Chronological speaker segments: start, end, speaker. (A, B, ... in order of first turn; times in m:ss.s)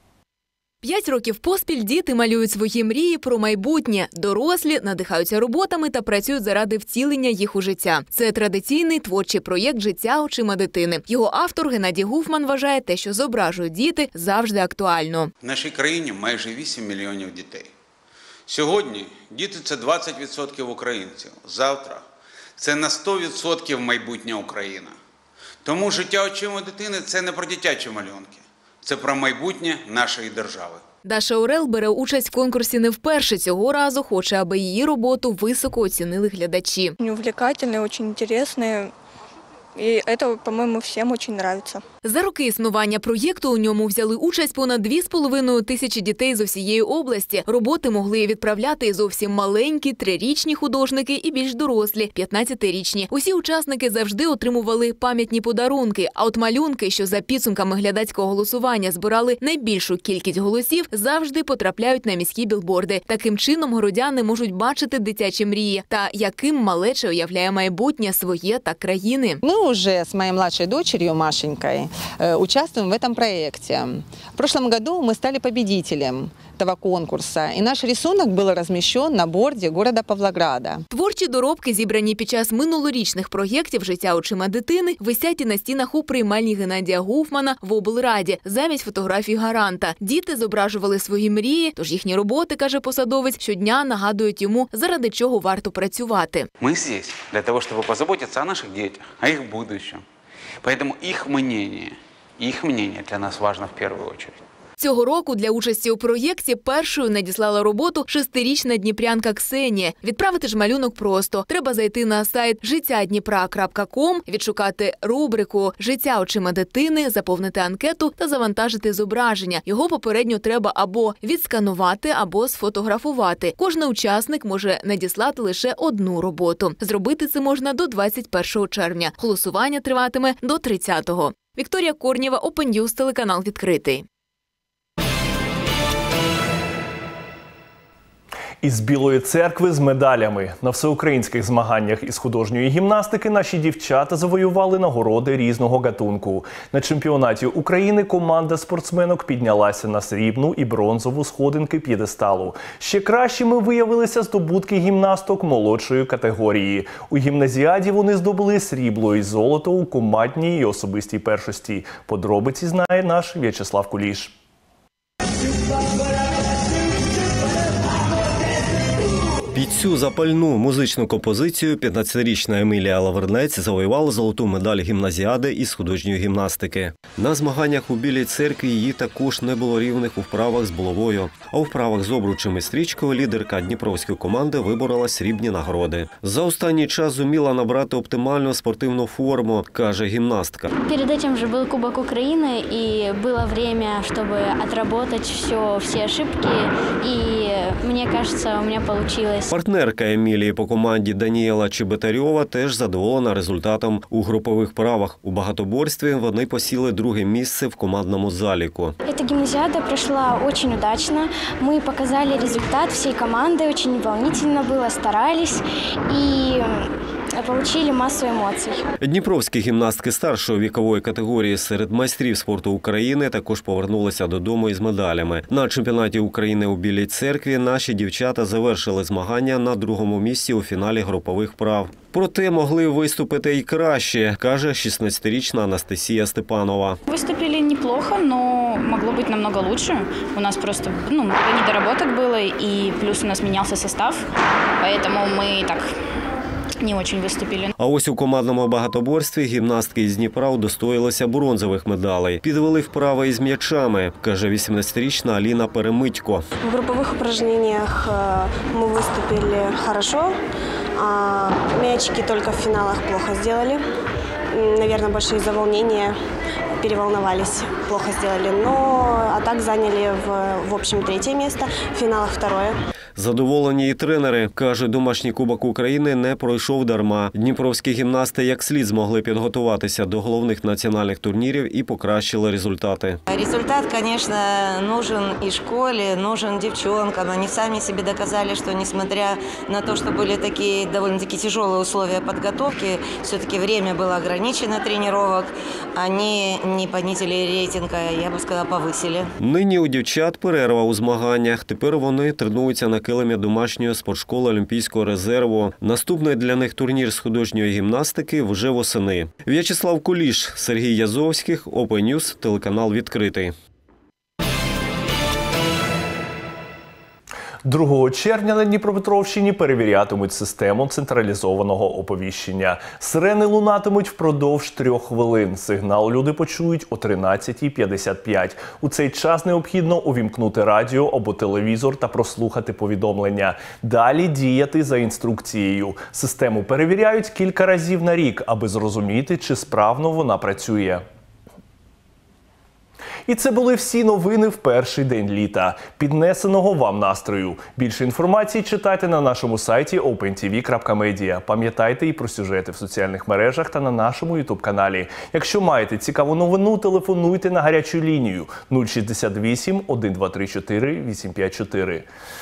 0:00.8-0:15.3 A
0:15.4-0:17.7 B
0:18.5-0:22.0 B
0:22.6-0:25.0 B
0:25.6-0:30.8 B
0:31.0-0:37.0 A
0:37.0-0:38.9 C
0:39.8-0:41.8 C
0:42.0-1:09.4 A
1:09.4-1:20.8 D
1:20.9-1:36.5 A
1:36.6-1:40.0 B
1:40.6-1:44.4 B
1:44.8-2:14.0 A
2:18.6-2:44.3 E
2:49.5-3:10.7 F
3:10.8-3:19.5 G
3:19.5-3:29.0 F
3:29.0-3:38.9 G
3:39.0-3:57.0 F
3:57.1-4:04.3 H
4:04.8-4:05.9 H
4:06.8-4:07.7 H
4:07.8-4:16.4 F
4:16.6-4:20.4 I
4:21.0-4:23.8 I
4:24.5-4:26.2 I
4:26.8-4:32.8 I
4:33.2-4:43.2 F
4:43.3-4:59.3 J
4:59.4-5:13.5 F
5:17.6-5:41.0 E
5:43.3-6:02.1 E